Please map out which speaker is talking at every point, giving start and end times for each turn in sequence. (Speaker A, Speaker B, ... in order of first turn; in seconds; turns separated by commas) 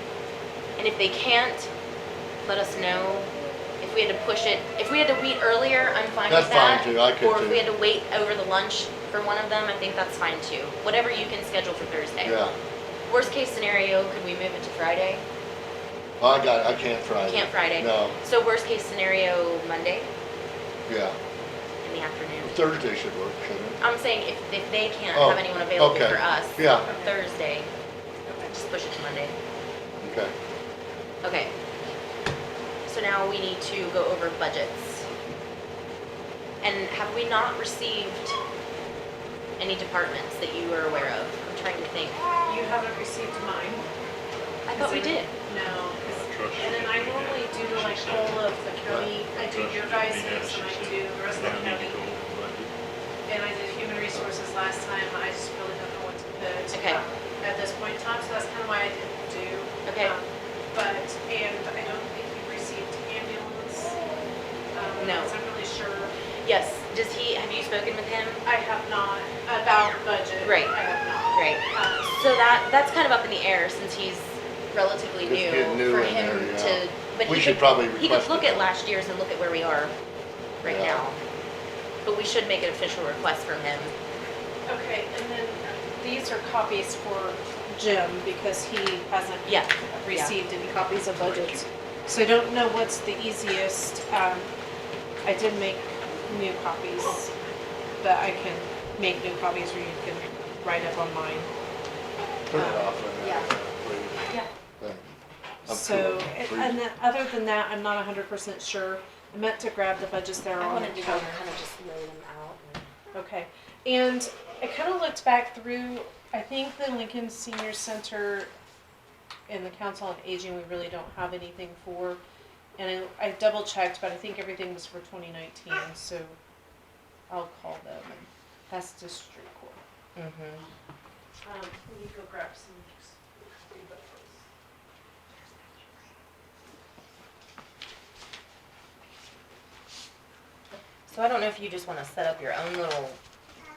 Speaker A: 0.8-1.7, Speaker A: 2.4-12.5, Speaker B: 6.3-7.6, Speaker B: 12.2-12.6, Speaker A: 13.1-15.3, Speaker B: 16.2-18.2, Speaker A: 17.2-20.1, Speaker B: 20.9-21.2, Speaker A: 21.8-22.6, Speaker B: 22.4-23.8, Speaker A: 23.8-27.7, Speaker B: 25.1-26.9, Speaker C: 26.8-27.2, Speaker C: 28.3-28.6, Speaker A: 28.5-29.4, Speaker B: 30.0-30.3, Speaker A: 31.2-31.5, Speaker A: 32.9-35.1, Speaker A: 36.6-38.4, Speaker A: 39.6-42.2, Speaker C: 42.5-43.9, Speaker A: 44.7-45.3, Speaker C: 44.7-52.0, Speaker D: 45.6-52.7, Speaker C: 53.3-64.0, Speaker A: 56.7-57.0, Speaker A: 59.9-60.1, Speaker C: 64.7-66.2, Speaker A: 65.0-65.4, Speaker A: 66.4-68.5, Speaker C: 68.5-72.2, Speaker A: 70.4-70.8, Speaker A: 71.3-79.9, Speaker B: 75.2-78.7, Speaker A: 80.6-81.2, Speaker B: 80.6-81.0, Speaker A: 82.0-83.9, Speaker C: 84.7-94.5, Speaker A: 89.5-90.4, Speaker C: 95.2-97.3, Speaker C: 98.0-101.5, Speaker B: 102.5-105.0, Speaker C: 102.5-102.9, Speaker A: 103.2-103.5, Speaker C: 105.7-111.3, Speaker B: 105.7-106.8, Speaker A: 110.6-112.9, Speaker C: 113.1-118.5, Speaker C: 119.5-122.2, Speaker C: 122.8-126.4, Speaker C: 127.3-129.8, Speaker A: 130.2-130.7, Speaker C: 131.4-134.4, Speaker A: 141.1-143.2